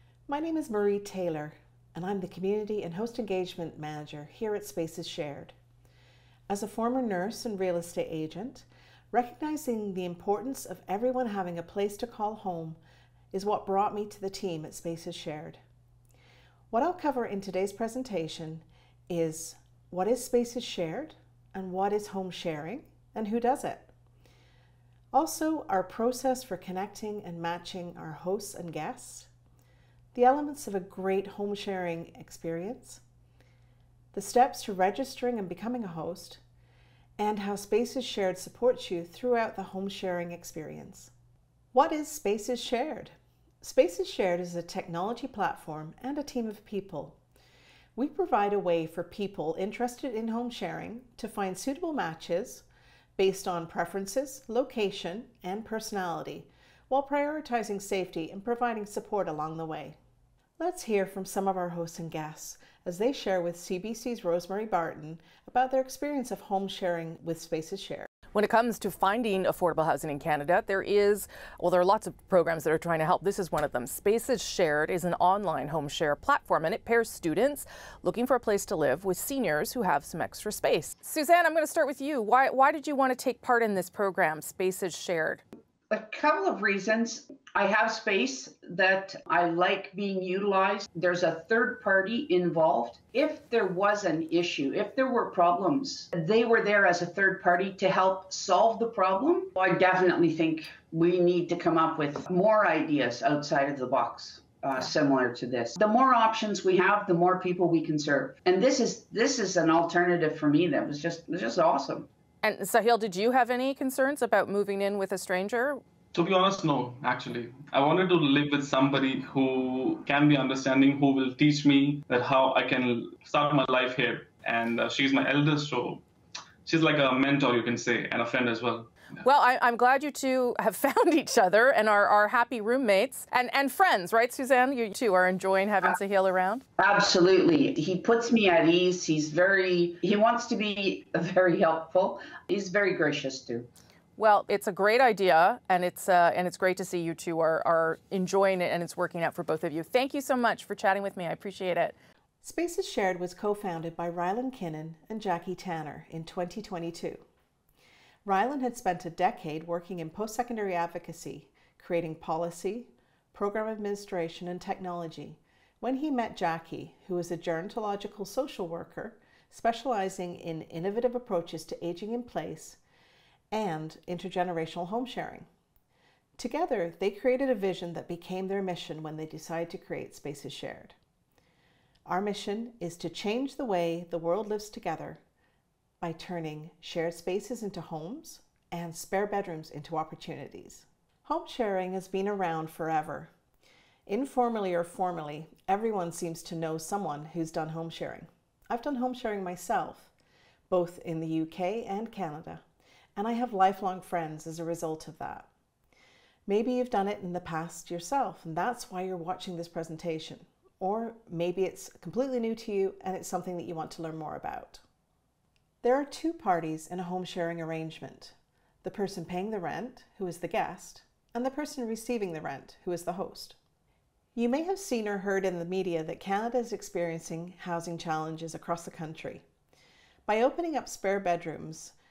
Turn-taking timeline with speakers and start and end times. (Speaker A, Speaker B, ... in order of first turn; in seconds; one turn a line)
Speaker A: 0.3-5.5
Speaker A: 6.5-12.8
Speaker A: 13.3-15.6
Speaker A: 16.7-23.9
Speaker A: 25.1-29.3
Speaker A: 30.1-33.0
Speaker A: 34.1-36.4
Speaker A: 37.2-41.1
Speaker A: 41.7-47.2
Speaker A: 48.0-52.6
Speaker A: 53.2-60.0
Speaker A: 60.6-68.1
Speaker B: 68.3-85.4
Speaker C: 85.9-112.1
Speaker B: 112.4-115.8
Speaker D: 116.1-126.1
Speaker D: 126.7-128.9
Speaker B: 129.2-136.6
Speaker C: 136.8-143.7
Speaker B: 144.2-151.9
Speaker A: 152.4-157.2
Speaker A: 158.2-172.8
Speaker A: 173.5-175.5
Speaker A: 176.4-181.0
Speaker A: 182.1-185.2
Speaker A: 186.0-193.3
Speaker A: 194.1-200.1
Speaker A: 200.7-202.6
Speaker A: 203.2-205.5
Speaker A: 206.5-214.8
Speaker A: 215.8-223.6
Speaker A: 224.3-229.4
Speaker A: 230.3-231.9